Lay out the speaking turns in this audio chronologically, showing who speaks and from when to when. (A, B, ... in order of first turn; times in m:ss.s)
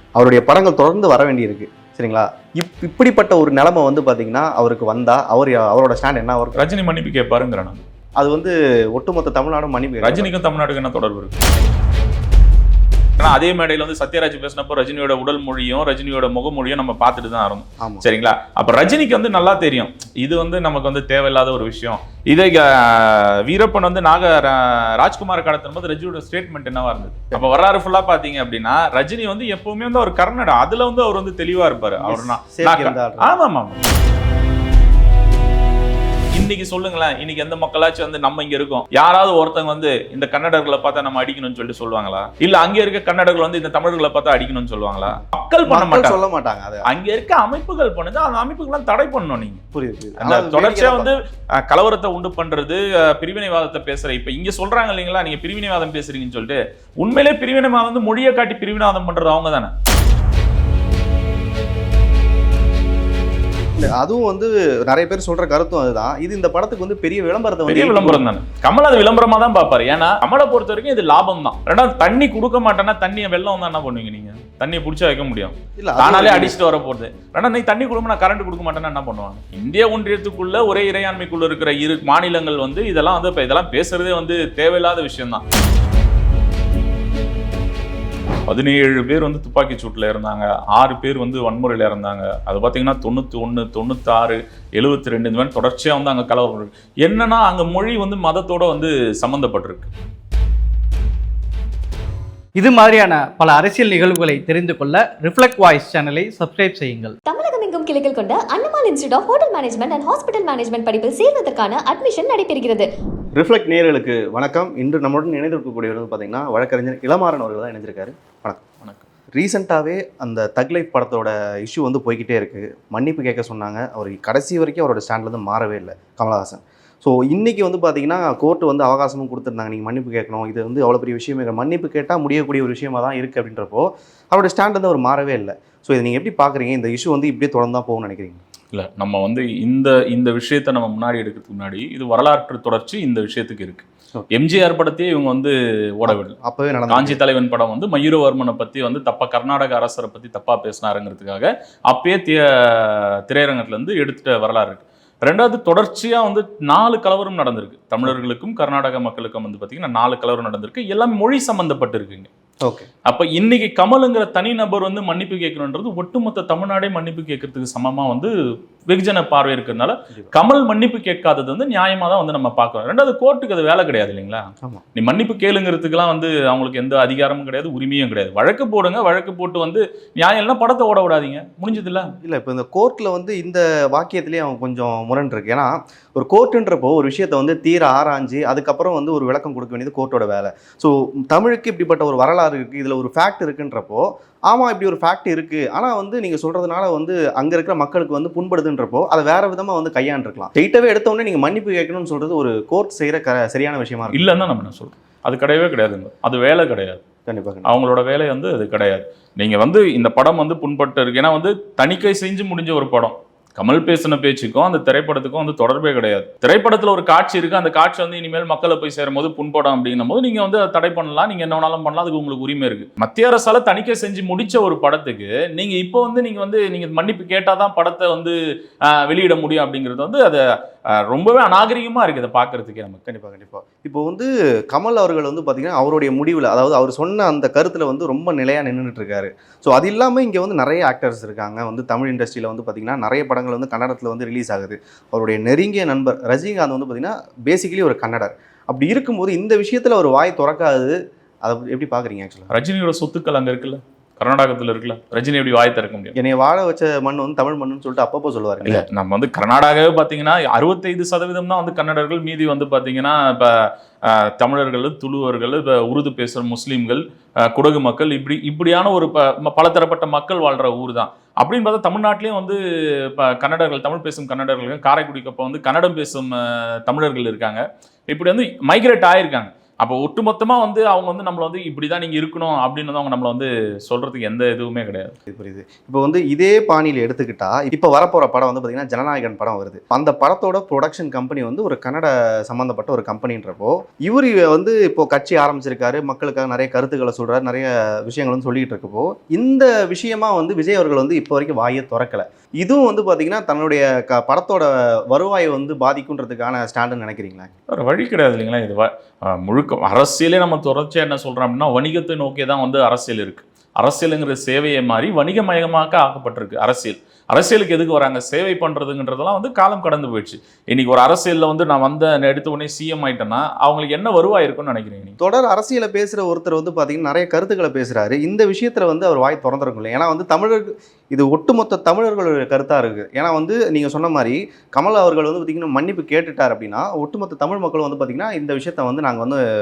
0:00.2-0:06.7 A
0:06.6-0:07.8 B
0:08.2-0:10.4 A
0:10.0-0:11.4 B
0:13.2-0:33.8 B
0:17.8-0:18.1 A
0:32.0-0:33.4 A
0:36.3-0:46.2 B
0:45.7-0:46.9 A
0:46.8-0:49.6 B
0:49.7-0:51.2 A
0:50.2-0:59.7 B
1:03.8-1:08.2 A
1:07.7-1:25.4 B
1:15.8-1:16.6 A
1:28.5-1:39.9 B
1:42.6-1:47.2 C
1:47.3-1:52.9 D
1:53.4-1:58.6 A
1:59.4-2:18.4 A
2:18.7-2:26.4 B
2:26.1-2:27.2 A
2:26.9-2:42.3 B
2:43.1-2:48.3 B
2:48.9-3:02.1 B
3:02.2-3:24.4 A
3:24.1-3:27.0 B
3:27.3-3:27.7 A
3:27.6-3:50.4 B
3:51.0-3:53.0 B
3:53.1-4:12.5 A
4:12.5-4:16.2 B
4:16.2-4:18.8 A
4:18.6-4:45.2 B
4:45.3-5:07.5 A
5:07.7-5:25.2 B
5:25.2-5:39.4 A